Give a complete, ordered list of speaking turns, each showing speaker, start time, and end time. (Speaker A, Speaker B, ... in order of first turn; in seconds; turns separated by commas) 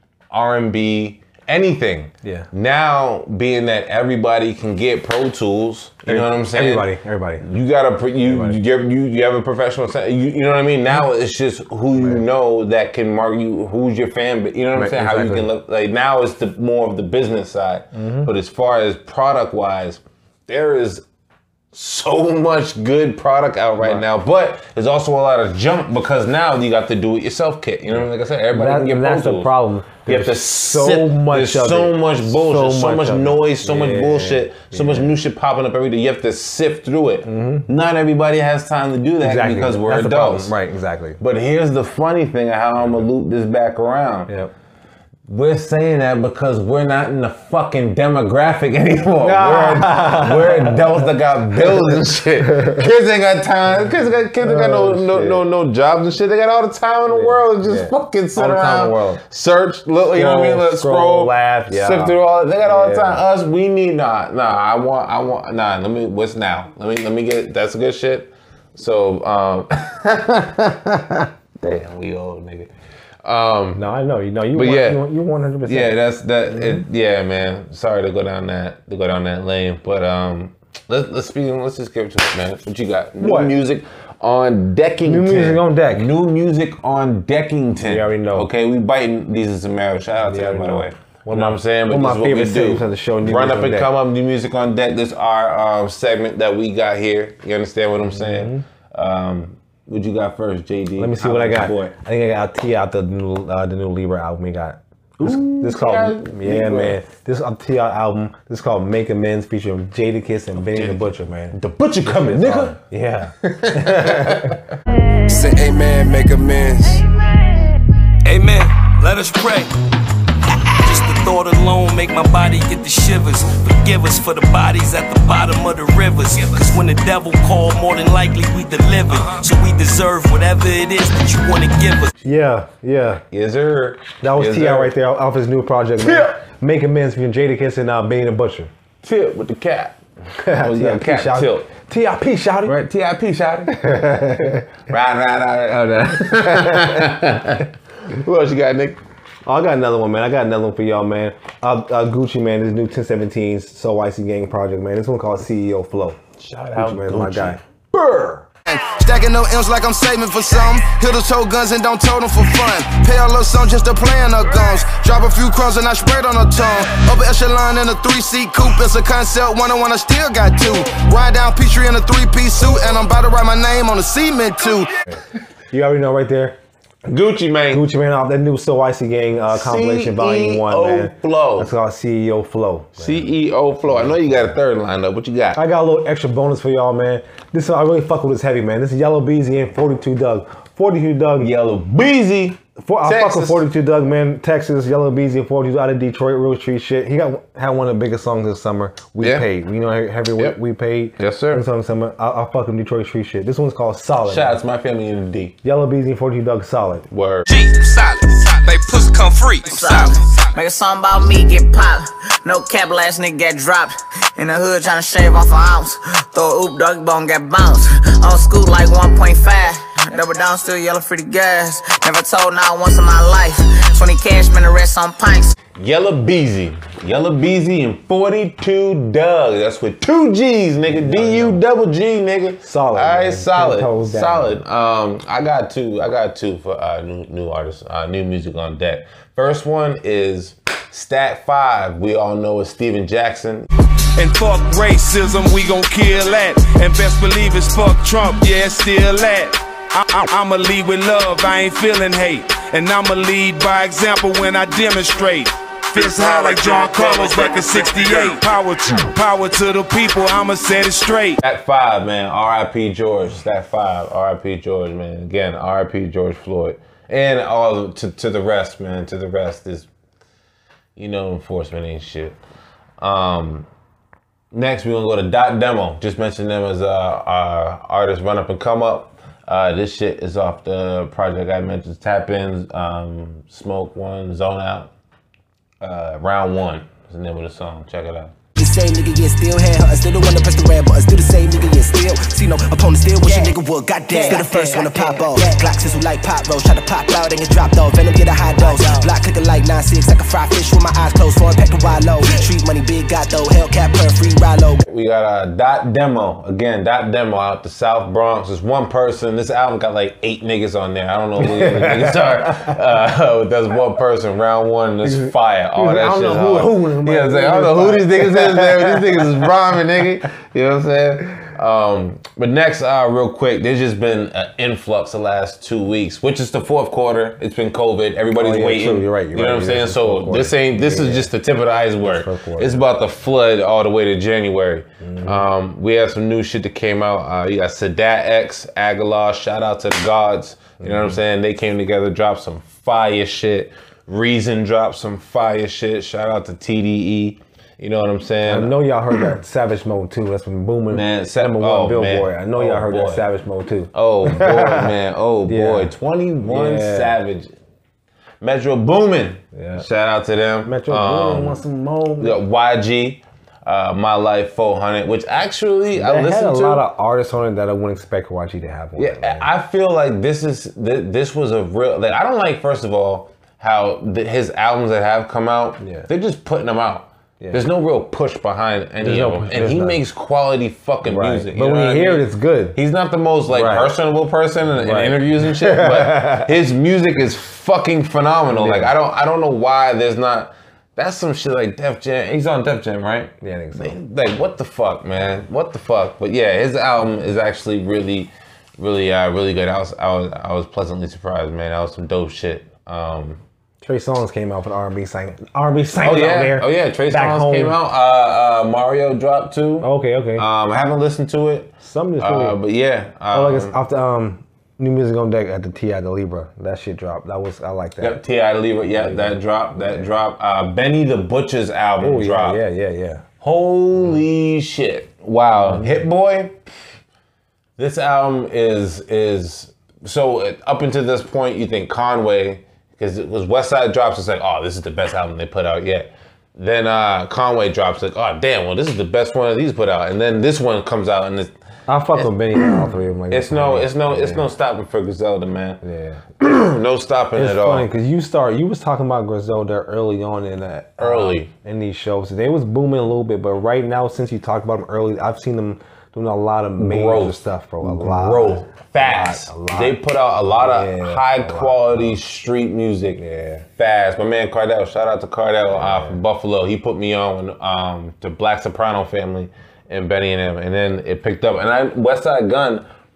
Speaker A: 0.3-21.0, Speaker B: 2.2-2.5, Speaker B: 6.0-7.5, Speaker B: 8.2-8.6, Speaker B: 11.9-12.2, Speaker B: 14.7-15.5, Speaker B: 17.9-18.3, Speaker A: 21.7-29.5, Speaker B: 28.5-35.1, Speaker A: 30.1-40.5, Speaker B: 37.2-37.7, Speaker B: 39.2-41.2, Speaker A: 41.2-44.3, Speaker A: 45.3-72.7, Speaker B: 49.2-51.0, Speaker B: 54.4-55.4, Speaker B: 57.1-59.2, Speaker B: 60.1-63.2, Speaker A: 73.2-73.8, Speaker B: 73.7-76.8, Speaker A: 74.5-75.1, Speaker A: 75.6-101.9, Speaker B: 83.2-83.5, Speaker B: 85.0-86.1, Speaker B: 87.8-88.5, Speaker B: 90.2-93.9, Speaker B: 98.1-98.6, Speaker B: 101.0-114.6, Speaker A: 105.2-107.0, Speaker A: 110.7-112.8, Speaker A: 113.4-114.6, Speaker C: 115.3-117.0, Speaker D: 118.2-119.7, Speaker D: 120.6-132.1, Speaker B: 132.2-133.2, Speaker A: 133.3-134.9, Speaker B: 134.2-138.7, Speaker A: 136.0-136.3, Speaker A: 139.0-140.0, Speaker B: 140.4-142.9, Speaker A: 140.5-141.7, Speaker A: 142.6-149.0, Speaker B: 143.7-144.7, Speaker B: 146.4-147.0, Speaker B: 149.4-156.2, Speaker A: 156.4-158.5, Speaker B: 156.7-157.6, Speaker C: 158.7-175.0, Speaker B: 175.7-176.6, Speaker A: 177.1-177.8, Speaker B: 177.7-183.3, Speaker A: 179.5-181.7, Speaker A: 183.0-185.6, Speaker B: 183.8-184.6, Speaker B: 185.5-191.5, Speaker A: 191.4-193.6, Speaker B: 192.8-204.6, Speaker A: 199.2-199.4, Speaker A: 201.2-201.6, Speaker A: 204.2-205.6, Speaker B: 205.6-207.1, Speaker A: 207.1-207.5, Speaker D: 207.5-210.4, Speaker E: 209.6-225.5, Speaker A: 225.7-243.7, Speaker B: 230.9-231.6, Speaker B: 232.6-234.6, Speaker F: 244.2-261.4, Speaker D: 256.2-258.1, Speaker A: 261.4-269.9, Speaker A: 270.9-272.4, Speaker A: 273.0-273.7, Speaker A: 274.5-284.9, Speaker A: 285.8-288.3, Speaker G: 288.6-304.8, Speaker C: 293.2-293.5, Speaker C: 294.1-295.5, Speaker C: 298.6-299.1, Speaker A: 304.8-348.8, Speaker B: 311.4-312.6, Speaker B: 315.0-319.4, Speaker B: 328.3-331.3, Speaker B: 332.0-332.9, Speaker B: 335.0-335.4, Speaker B: 340.8-341.2, Speaker B: 348.4-354.9, Speaker A: 350.9-353.2, Speaker A: 353.9-357.5, Speaker B: 355.5-355.9, Speaker B: 356.4-357.1, Speaker A: 358.4-361.6, Speaker B: 359.5-359.9, Speaker B: 360.6-362.4, Speaker A: 362.2-366.8, Speaker B: 365.9-369.5, Speaker A: 368.9-403.4, Speaker B: 375.8-376.1, Speaker B: 379.0-380.0, Speaker B: 381.0-382.8, Speaker B: 383.5-383.9, Speaker B: 384.7-386.5, Speaker B: 388.5-388.9, Speaker B: 393.4-393.9, Speaker B: 403.8-407.8, Speaker A: 406.0-413.7, Speaker B: 409.8-410.4, Speaker B: 411.8-412.6, Speaker B: 413.3-418.2, Speaker A: 418.0-422.6, Speaker B: 419.0-420.1, Speaker B: 422.0-423.2, Speaker A: 423.4-426.6, Speaker B: 425.6-426.0, Speaker A: 427.8-441.5, Speaker B: 441.9-444.5, Speaker A: 442.1-445.8, Speaker B: 445.8-446.2, Speaker A: 446.4-447.9, Speaker B: 447.3-462.2, Speaker A: 451.0-451.5, Speaker A: 456.8-463.2, Speaker B: 463.2-463.7, Speaker A: 463.8-472.8, Speaker B: 465.7-466.2